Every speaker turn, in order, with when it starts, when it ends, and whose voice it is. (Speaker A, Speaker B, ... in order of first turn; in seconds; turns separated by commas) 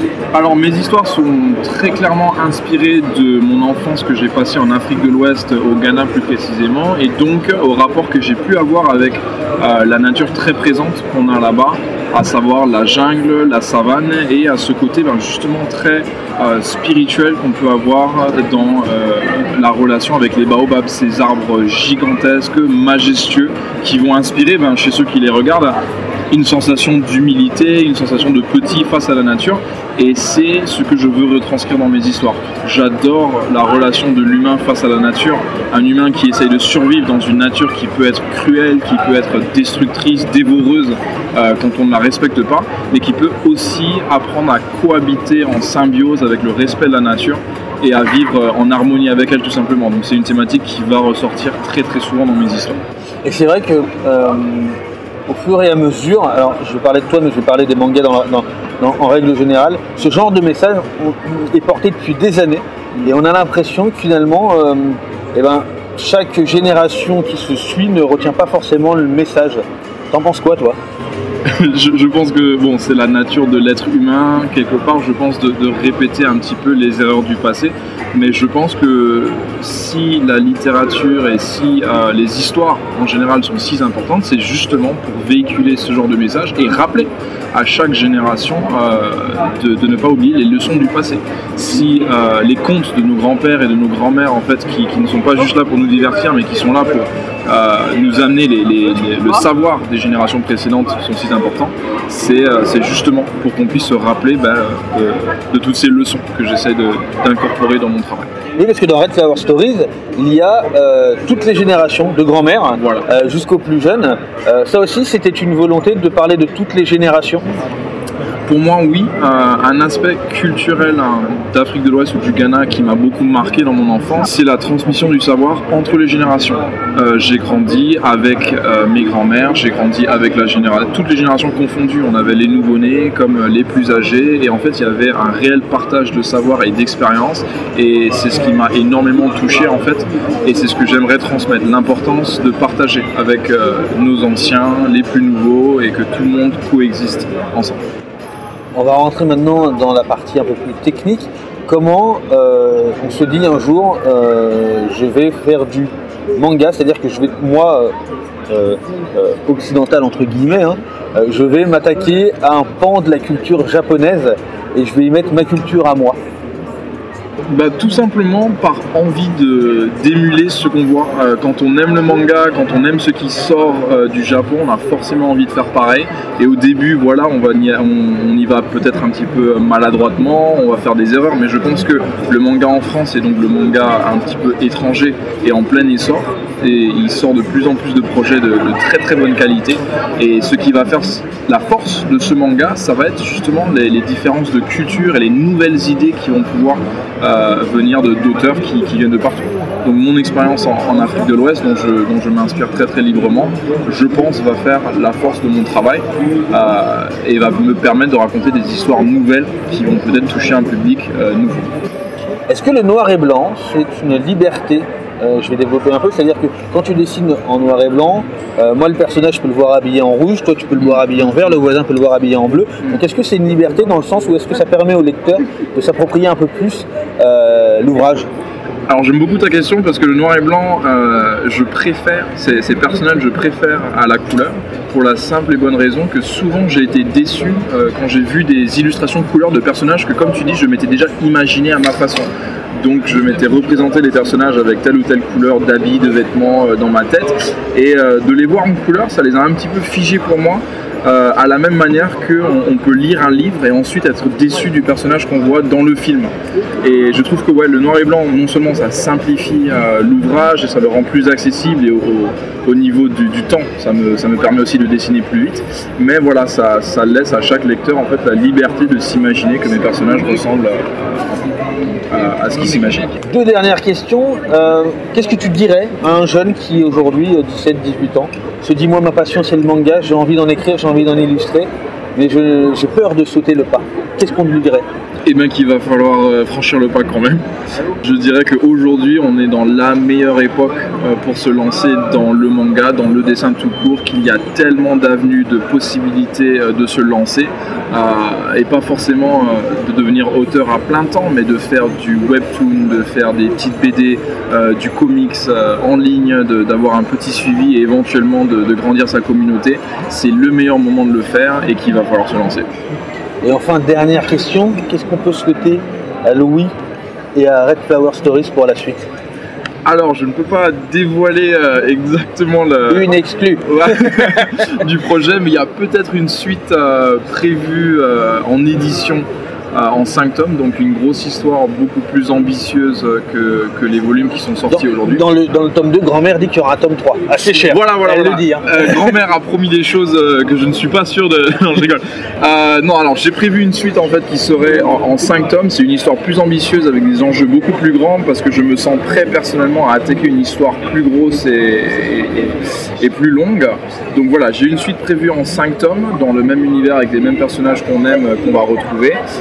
Speaker A: 0.3-52.8, Speaker B: 53.2-70.8, Speaker A: 71.5-108.3, Speaker B: 108.5-117.4, Speaker A: 112.8-113.0, Speaker A: 118.5-147.8, Speaker B: 148.7-157.9, Speaker B: 158.5-166.2, Speaker A: 167.5-211.7, Speaker B: 212.5-228.3, Speaker A: 228.9-271.5, Speaker A: 272.1-273.2, Speaker B: 273.2-284.9, Speaker A: 285.2-287.4, Speaker A: 288.0-312.7, Speaker B: 313.4-316.7, Speaker B: 317.3-319.1, Speaker A: 319.8-323.0, Speaker B: 322.9-324.5, Speaker A: 323.6-335.2, Speaker B: 334.7-338.9, Speaker A: 337.4-359.2